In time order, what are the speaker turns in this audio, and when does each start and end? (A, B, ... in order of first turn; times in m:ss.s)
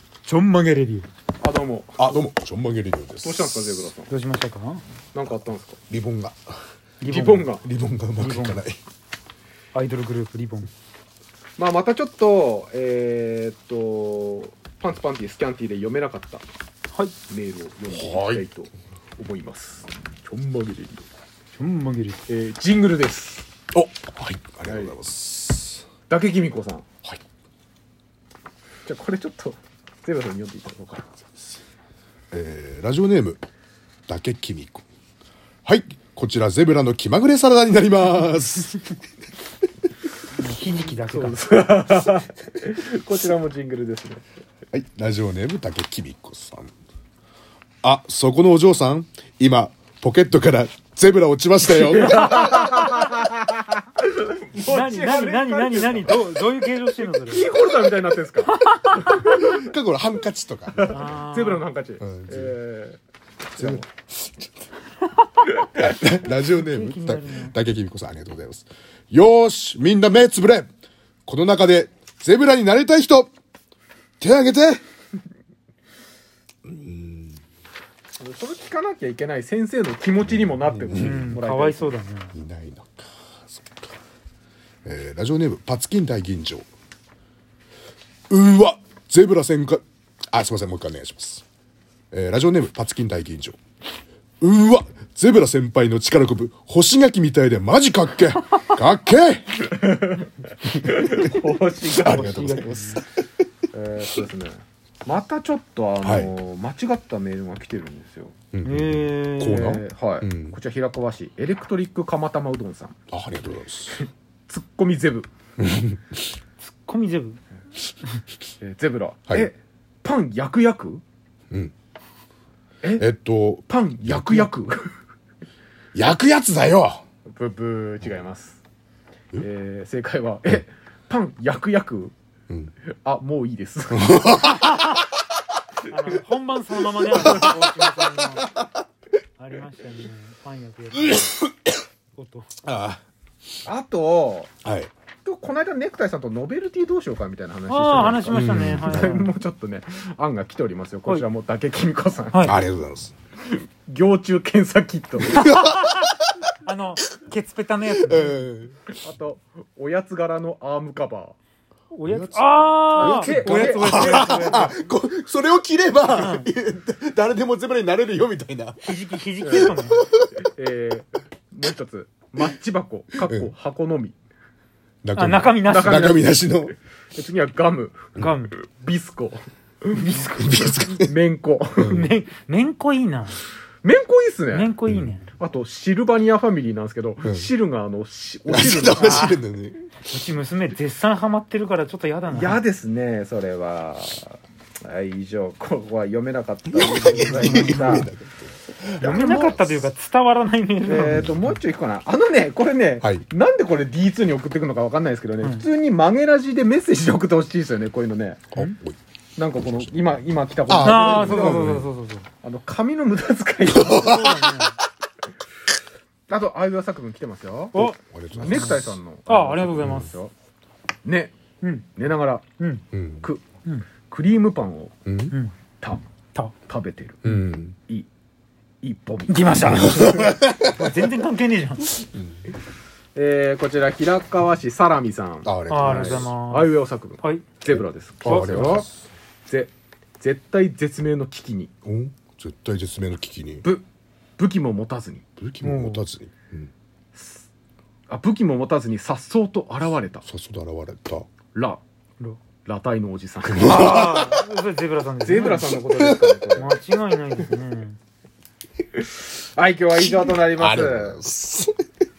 0:00.3-0:01.1 A
0:01.4-0:02.2 B
0:02.0-0:03.9 C
0:03.2-0:04.1 B
0:04.1-0:04.8 A
0:05.1-0:05.8 B
0:05.9-0:06.5 C
0:07.0-0:07.5 A
0:07.0-0:07.6 B
0:07.6-0:08.8 C
0:08.2-0:08.6 A
0:09.7-0:10.7 A
0:11.6-0:16.4 B
0:17.3-0:21.0 B
0:17.9-0:18.4 C
0:21.6-0:22.2 A
0:22.3-0:23.5 B
0:23.7-0:25.8 C
0:24.6-0:25.0 B
0:26.1-0:26.9 B
0:28.8-0:31.3 B
0:32.3-0:33.4 C
0:34.1-0:34.8 C
0:35.6-0:39.0 C
0:40.4-0:41.4 A
0:40.9-0:44.2 B
0:44.7-0:46.7 C
0:47.8-0:52.7 C
0:51.7-0:56.3 B
0:52.4-0:52.8 A
0:54.6-0:57.5 A
0:57.2-0:59.6 B
0:59.2-1:01.0 C
1:00.8-1:03.0 B
1:00.9-1:01.6 A
1:02.0-1:02.6 C
1:03.6-1:03.9 B
1:03.6-1:03.8 C
1:05.7-1:10.7 C
1:06.5-1:07.6 A
1:11.3-1:13.3 C
1:14.2-1:14.8 C
1:16.7-1:17.4 C
1:18.2-1:22.0 B
1:20.5-1:21.4 C
1:20.9-1:22.3 A
1:22.3-1:23.9 C
1:24.8-1:26.7 C
1:28.3-1:31.4 C
1:32.1-1:33.6 C
1:34.4-1:39.7 C
1:39.6-1:42.8 B
1:40.8-1:43.1 C
1:42.0-1:43.0 A
1:43.7-1:48.4 B
1:46.0-1:46.3 C
1:48.5-1:50.6 C
1:48.6-1:49.8 A
1:49.4-1:53.0 B
1:53.1-1:54.0 C
1:53.9-1:55.3 B
1:55.6-1:56.2 C
1:56.6-1:57.4 A
1:58.6-2:01.0 B
2:02.8-2:03.1 B
2:03.0-2:04.5 C
2:03.7-2:04.9 B
2:05.9-2:07.0 C
2:07.3-2:08.6 B
2:09.4-2:12.1 B
2:12.9-2:14.7 B
2:14.0-2:14.9 C
2:15.9-2:18.6 A
2:17.1-2:18.0 C
2:19.4-2:21.4 A
2:21.1-2:21.5 C
2:22.2-2:22.5 A
2:22.6-2:23.0 C
2:23.6-2:24.5 B
2:24.6-2:24.9 C
2:25.2-2:32.6 B
2:27.7-2:29.3 A
2:28.3-2:29.2 C
2:32.3-2:32.6 A
2:32.4-2:33.1 C
2:33.5-2:35.5 B
2:35.4-2:36.0 C
2:35.4-2:38.5 A
2:38.0-2:38.9 C
2:38.9-2:41.4 B
2:41.9-2:44.8 A
2:42.1-2:50.3 C
2:43.0-2:44.7 B
2:46.1-2:46.5 A
2:48.8-2:50.0 A
2:49.4-2:49.8 B
2:50.4-2:54.2 B
2:53.2-2:53.5 C
2:55.0-2:56.8 C
2:55.2-2:56.2 A
2:55.6-2:56.5 B
2:57.2-3:02.1 B
2:58.2-2:58.6 A
3:00.3-3:01.1 C
3:01.8-3:03.4 A
3:01.8-3:02.1 C
3:03.8-3:04.7 B
3:04.5-3:05.3 A
3:04.9-3:05.2 C
3:05.4-3:09.4 B
3:07.2-3:07.5 C
3:08.5-3:09.8 C
3:09.0-3:09.4 A
3:10.1-3:12.6 A
3:12.3-3:18.1 B
3:16.7-3:19.7 C
3:17.3-3:18.1 A
3:19.0-3:21.4 A
3:19.0-3:19.4 B
3:20.8-3:28.4 B
3:21.2-3:21.4 C
3:28.5-3:29.0 C
3:29.4-3:31.8 B
3:30.7-3:31.9 C
3:30.8-3:32.3 A
3:32.4-3:34.6 B
3:33.7-3:34.5 C
3:33.9-3:34.8 A
3:36.3-3:40.3 B
3:37.7-3:38.7 A
3:37.8-3:39.0 C
3:39.3-3:40.1 A
3:41.0-3:41.3 B
3:41.6-3:41.9 A
3:42.0-3:42.4 B
3:42.6-3:42.8 A
3:42.9-3:43.3 C
3:43.2-3:43.5 B
3:44.1-3:45.0 B
3:45.1-3:45.4 C
3:46.6-3:47.2 B
3:47.2-3:47.8 C
3:48.8-3:50.0 B
3:49.3-3:52.0 A
3:52.1-3:52.4 C
3:53.2-3:58.9 B
3:55.4-3:56.3 C
3:55.7-3:57.4 A
3:58.2-3:58.8 A
3:58.2-3:58.9 C
3:59.5-4:01.7 B
4:01.8-4:03.7 C
4:04.4-4:05.2 B
4:05.4-4:06.7 C
4:05.6-4:06.1 A
4:07.2-4:07.5 B
4:08.1-4:10.2 B
4:10.2-4:11.3 C
4:11.5-4:11.8 B
4:12.6-4:14.2 B
4:13.5-4:14.4 C
4:13.6-4:15.8 A
4:15.2-4:16.7 B
4:15.9-4:16.4 C
4:16.6-4:18.0 A
4:19.2-4:21.2 B
4:20.1-4:21.8 C